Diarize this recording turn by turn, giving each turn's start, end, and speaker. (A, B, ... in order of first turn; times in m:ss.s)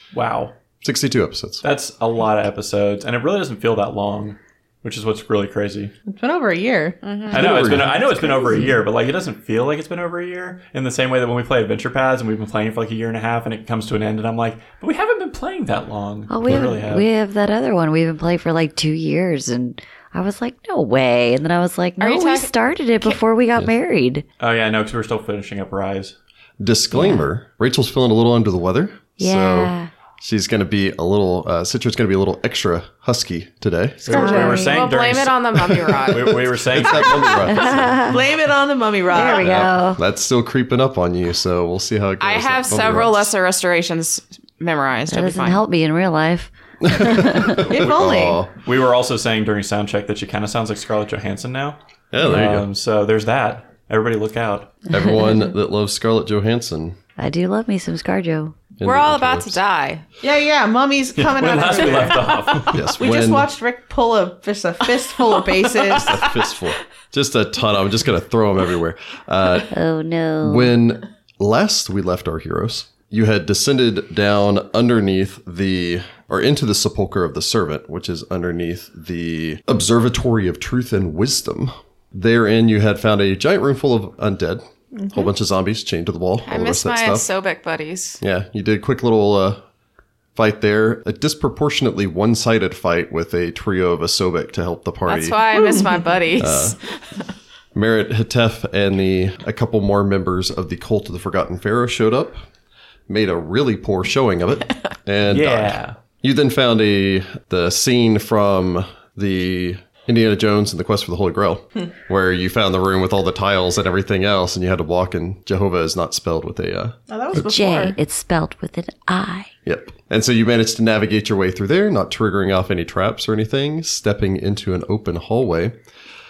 0:00.1-0:00.5 A
0:00.8-0:01.7 B
0:01.6-0:05.9 A
0:06.1-0:08.8 C
0:07.0-0:07.4 D
0:07.3-0:17.0 A
0:07.3-0:08.0 B
0:16.3-0:24.2 E
0:22.0-0:22.5 D
0:24.4-0:26.1 A
0:26.6-0:34.2 B
0:26.9-0:27.3 E
0:29.2-0:29.9 E
0:34.0-0:37.4 A
0:34.1-0:34.8 C
0:34.1-0:36.4 D
0:34.2-0:34.6 E
0:36.1-0:38.0 B
0:36.9-0:37.3 C
0:37.4-0:38.2 E
0:38.0-0:39.5 C
0:39.1-0:40.0 E
0:39.4-0:43.3 B
0:42.2-0:45.6 D
0:45.1-0:47.7 E
0:46.8-0:48.6 B
0:47.7-0:48.0 A
0:47.7-0:48.4 C
0:48.6-0:54.7 A
0:52.1-0:52.7 B
0:54.9-0:57.0 B
0:57.2-0:58.6 E
0:58.8-0:59.6 B
0:58.8-1:00.0 D
1:00.2-1:06.3 C
1:01.2-1:02.8 A
1:01.6-1:02.0 D
1:02.7-1:03.5 B
1:05.9-1:09.7 B
1:09.7-1:10.7 E
1:10.4-1:27.3 B
1:25.0-1:25.3 C
1:26.4-1:28.2 D
1:28.2-1:29.6 B
1:30.4-1:35.4 B
1:35.1-1:37.0 D
1:35.5-1:36.0 C
1:36.4-1:36.8 B
1:37.8-1:42.4 B
1:43.1-1:57.0 B
1:45.3-1:46.0 A
1:57.1-1:58.0 C
1:57.3-1:59.5 E
1:59.7-2:05.8 B